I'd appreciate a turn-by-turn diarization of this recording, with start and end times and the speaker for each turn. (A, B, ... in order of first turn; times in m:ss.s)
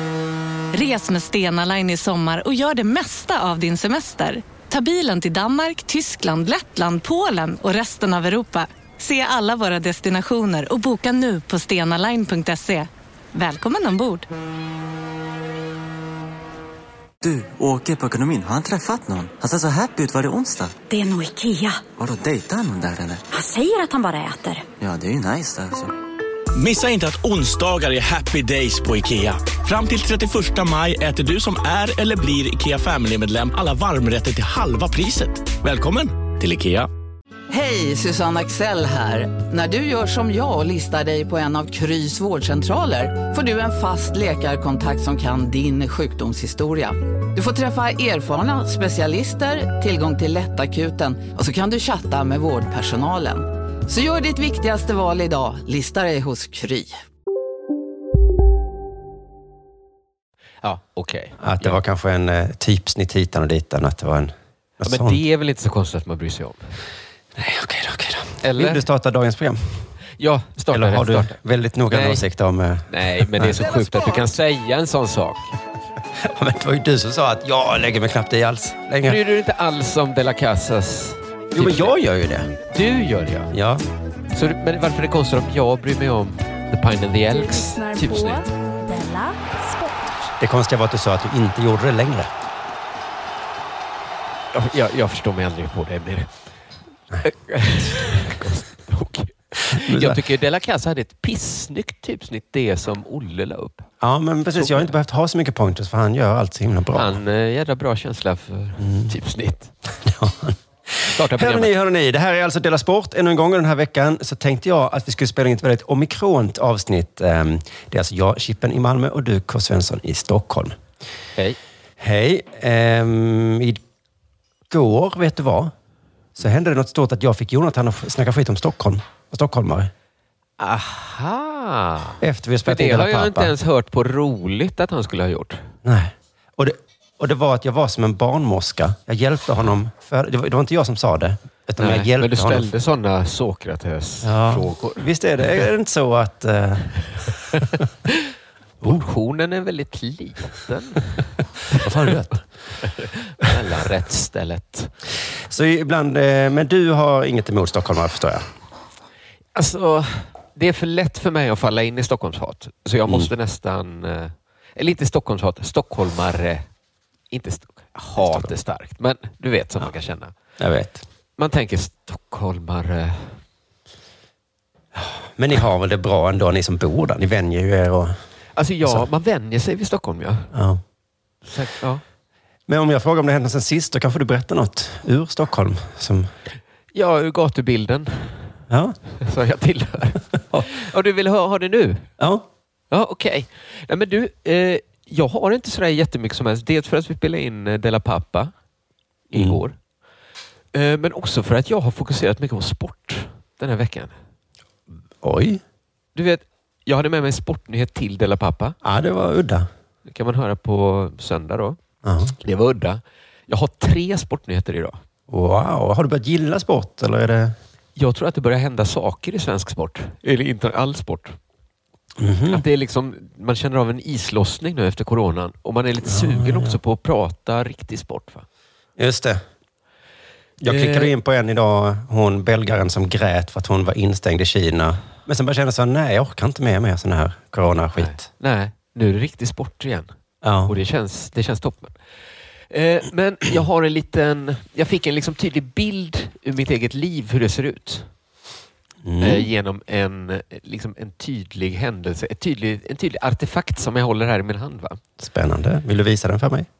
0:00.7-0:14.3 A
0:17.2-0:20.8 B
0:20.9-0:21.9 C
0:21.9-0:23.2 B
0:23.3-0:24.6 C
0:24.8-0:25.9 B
0:26.5-0:36.9 D
0:37.5-0:57.0 E
1:00.6-1:01.8 F
1:01.4-1:05.2 G
1:04.8-1:06.7 F
1:07.4-1:09.9 G
1:08.4-1:08.8 F
1:10.2-1:11.4 F
1:10.7-1:13.8 G
1:11.9-1:12.2 F
1:12.9-1:15.5 F
1:16.2-1:19.2 G
1:19.0-1:21.9 F
1:21.5-1:22.5 G
1:22.7-1:23.5 F
1:23.5-1:23.8 G
1:24.3-1:28.4 F
1:27.2-1:30.3 H
1:30.4-1:32.3 G
1:34.5-1:36.3 F
1:37.2-1:43.9 F
1:39.7-1:40.2 G
1:44.0-1:47.2 G
1:44.5-1:44.9 F
1:46.9-1:49.7 F
1:48.8-1:49.1 G
1:50.0-2:00.8 G
1:51.1-1:51.7 F
2:02.0-2:03.8 G
2:04.7-2:05.7 G
2:06.4-2:09.9 G
2:10.6-2:15.7 F
2:12.2-2:13.5 G
2:15.8-2:22.7 G
2:21.8-2:25.0 F
2:24.2-2:27.6 G
2:28.8-2:31.2 F
2:31.7-2:32.4 G
2:32.8-2:34.9 F
2:35.5-2:38.5 G
2:39.5-2:46.7 F
2:47.3-2:50.3 F
2:48.2-2:48.5 G
2:50.6-2:51.0 G
2:51.4-2:53.4 F
2:54.9-2:58.1 G
2:58.6-3:00.5 F
3:00.5-3:00.8 G
3:01.4-3:02.0 F
3:02.7-3:06.3 G
3:06.9-3:08.5 F
3:08.7-3:09.0 G
3:09.2-3:12.1 F
3:12.2-3:12.4 G
3:12.9-3:18.5 F
3:19.3-3:19.8 F
3:20.7-3:24.2 F
3:25.2-3:25.6 G
3:26.1-3:28.8 F
3:28.8-3:29.7 G
3:30.0-3:31.8 F
3:32.0-3:32.3 G
3:32.4-3:35.0 F
3:35.3-3:37.6 G
3:38.0-3:41.4 F
3:42.2-3:42.6 G
3:42.5-3:48.4 F
3:46.0-3:46.8 G
3:49.0-3:49.4 G
3:50.6-3:58.3 G
3:50.6-3:51.1 F
3:58.0-4:00.1 F
4:00.4-4:00.7 G
4:00.6-4:02.0 F
4:02.7-4:08.1 F
4:09.0-4:09.5 G
4:09.2-4:15.0 F
4:15.2-4:16.7 G